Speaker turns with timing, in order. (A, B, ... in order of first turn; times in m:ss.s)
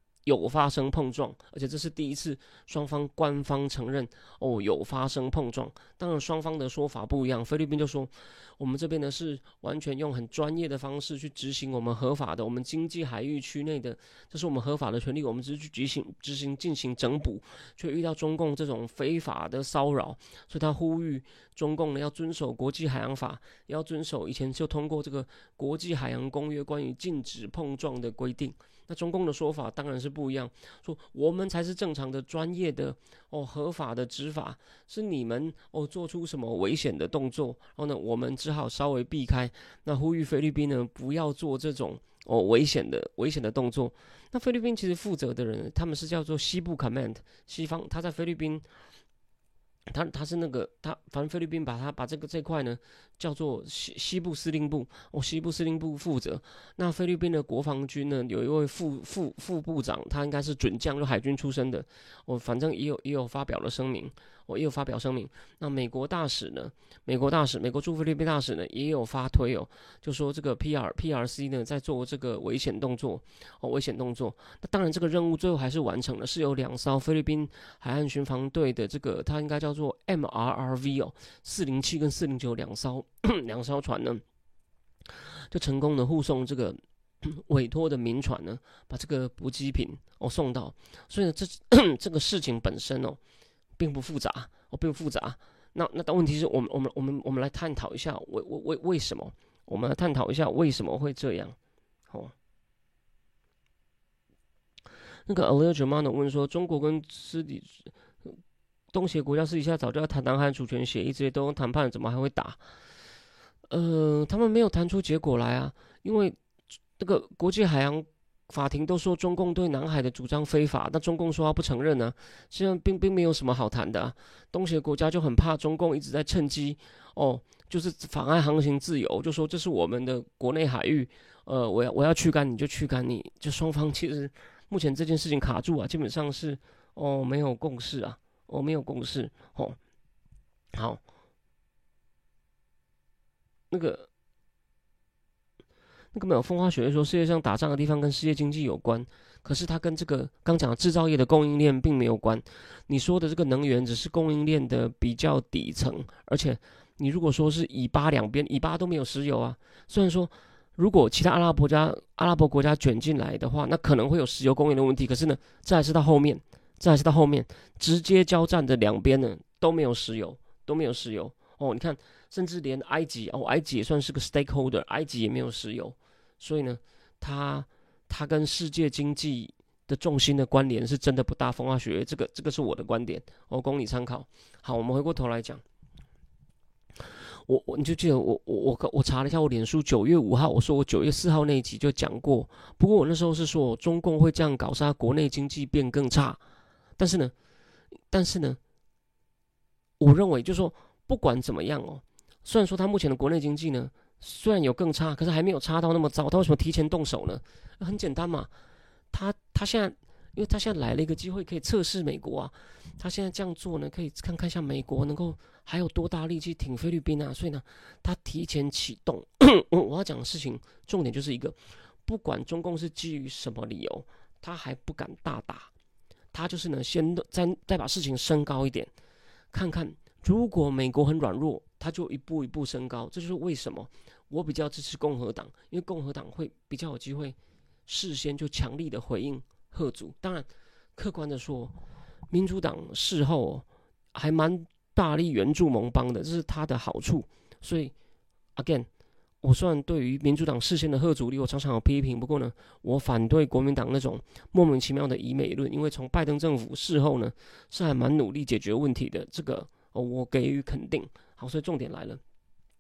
0:00.3-0:48.6 A
0:49.9-1:24.2 A
1:25.5-1:33.2 A
1:33.8-1:41.6 A
1:45.3-1:48.4 A
1:48.9-1:52.6 A
1:53.7-1:56.4 A
1:57.0-2:19.8 A
2:20.7-2:21.0 A
2:23.7-2:24.1 A
2:26.1-3:05.6 A
3:07.5-3:16.4 A
3:17.0-3:17.3 A
3:18.1-3:18.6 A
3:20.0-3:28.5 A
3:29.1-3:45.7 A
3:46.3-3:48.9 A
3:49.5-3:57.4 A
3:57.9-4:01.7 A
4:02.3-4:07.9 A
4:08.6-4:08.9 A
4:09.4-4:22.2 A